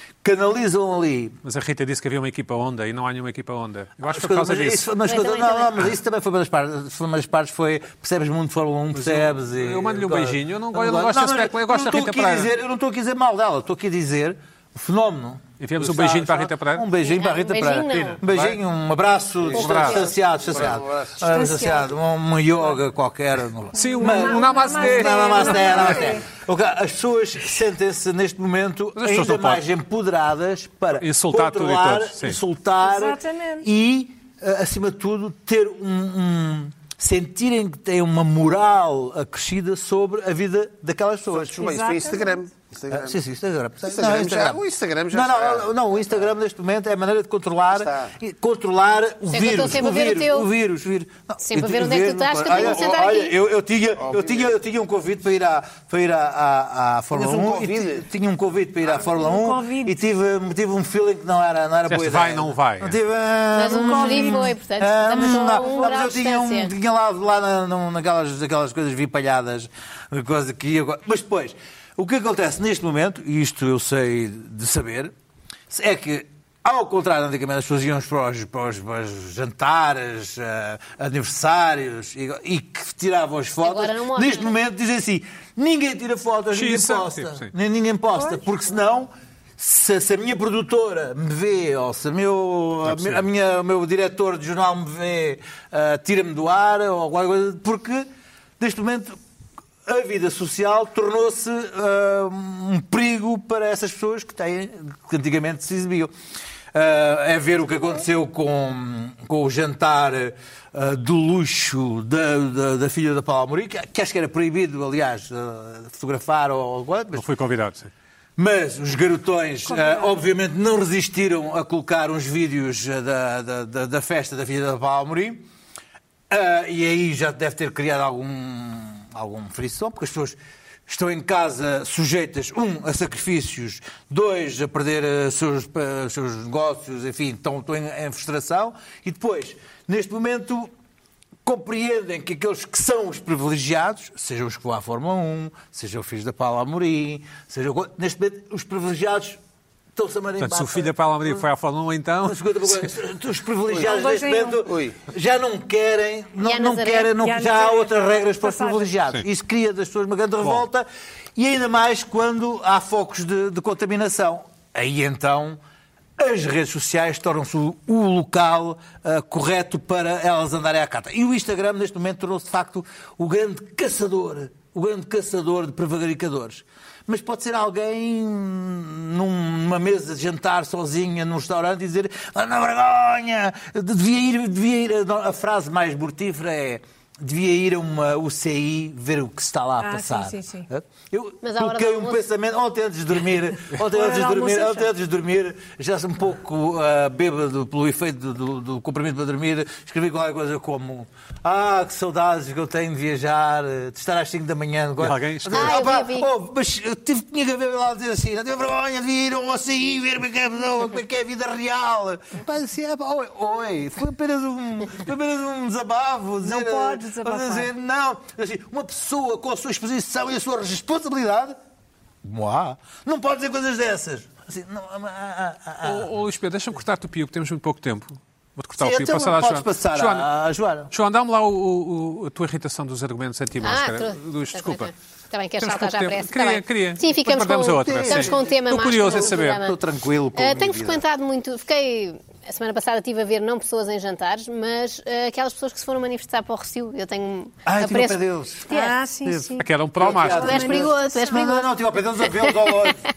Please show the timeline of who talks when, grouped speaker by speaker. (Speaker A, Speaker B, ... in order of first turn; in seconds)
Speaker A: 0.2-1.4, 4.0-41.6, 42.9-75.1, 75.7-99.2, 99.8-106.1, 106.7-117.3, 118.4-125.5, 126.3-140.7, 141.4-149.4, 149.9-151.4, 152.2-165.6, 166.2-221.6, 222.2-226.1, 228.7-230.9, 237.8-241.0, 247.6-248.7, 249.2-253.0
Speaker B: 1.4-4.9, 8.9-12.5, 15.6-16.9, 17.9-18.6, 19.5-20.1, 23.7-26.1, 28.9-29.6, 31.0-32.4, 61.9-63.0, 86.5-87.5, 92.8-93.2, 117.1-117.9, 150.4-152.8, 205.0-205.9, 225.8-230.3, 230.9-234.9, 235.6-239.6, 249.6-250.6
Speaker C: 5.0-5.8, 17.0-18.2, 19.5-20.2, 49.3-50.5, 51.4-53.3, 63.5-66.7, 83.6-84.5, 156.4-157.1, 191.4-192.2, 205.5-206.3, 233.6-239.8, 240.3-249.0, 250.3-252.9
Speaker D: 19.5-21.5, 41.3-43.2, 43.9-46.2, 47.7-48.1, 52.5-53.0, 54.0-54.5, 57.1-58.0, 154.6-155.0
Speaker E: 21.3-21.9, 23.9-26.2, 32.8-33.7, 41.6-42.4, 59.0-60.0, 63.7-64.5, 65.1-65.9, 119.7-120.2, 153.8-154.7, 157.2-158.9, 189.8-190.7, 193.9-194.9, 216.4-217.7, 248.7-249.7, 250.2-251.4